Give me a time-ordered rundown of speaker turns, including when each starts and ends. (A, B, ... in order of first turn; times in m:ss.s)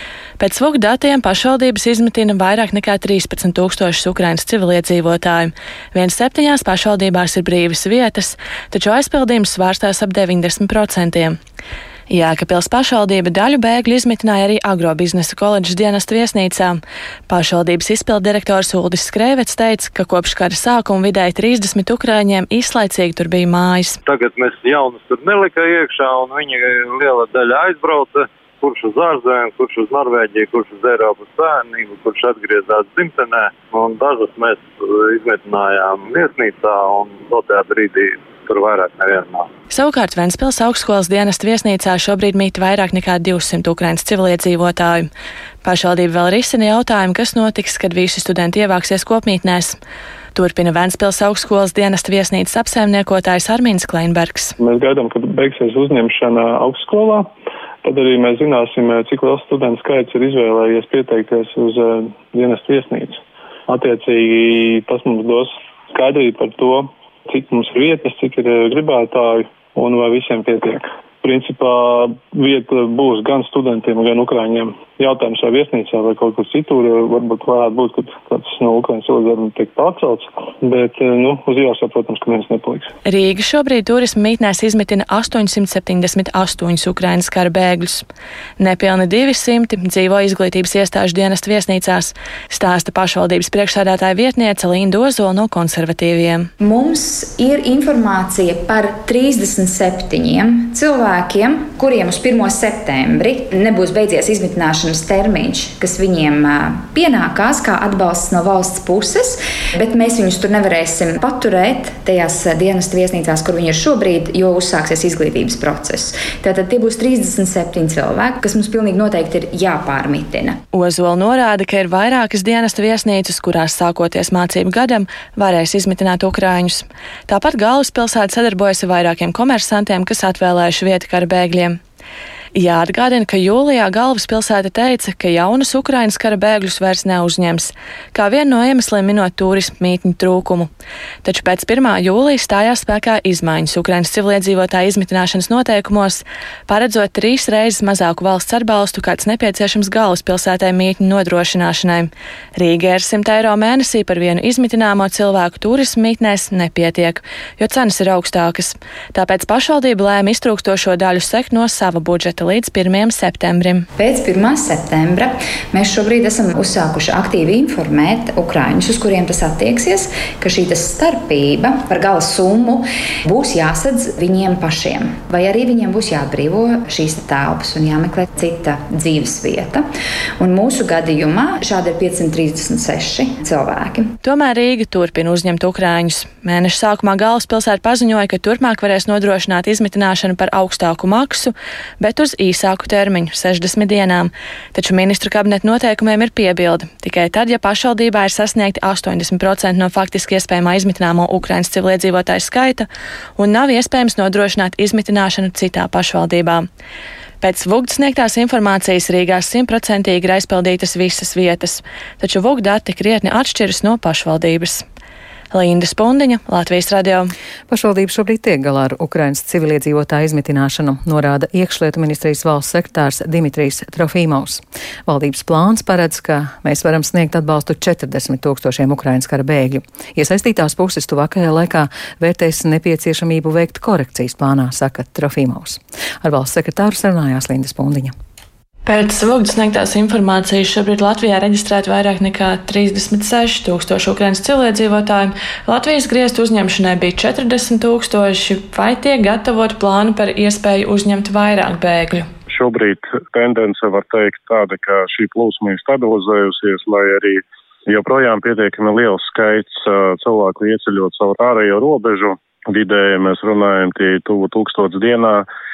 0:00.4-0:11.4 A
0:12.1-0:24.0 A
0:24.0-0:39.5 B
0:39.7-0:45.1 A
0:45.6-0:49.8 A
0:50.4-0:54.6 A
0:54.6-0:57.3 C
0:57.8-1:22.9 C
1:23.1-1:28.1 A
1:28.6-1:36.5 A
1:36.6-2:00.6 D
2:00.7-2:11.8 A
2:12.6-2:20.7 A
2:21.2-2:43.9 A
2:44.0-2:59.9 D
3:00.4-3:04.1 D
3:04.2-3:26.7 A
3:27.4-3:34.8 A
3:35.5-3:37.3 A
3:37.7-3:58.1 E
3:58.9-4:12.3 A
4:12.5-4:25.5 F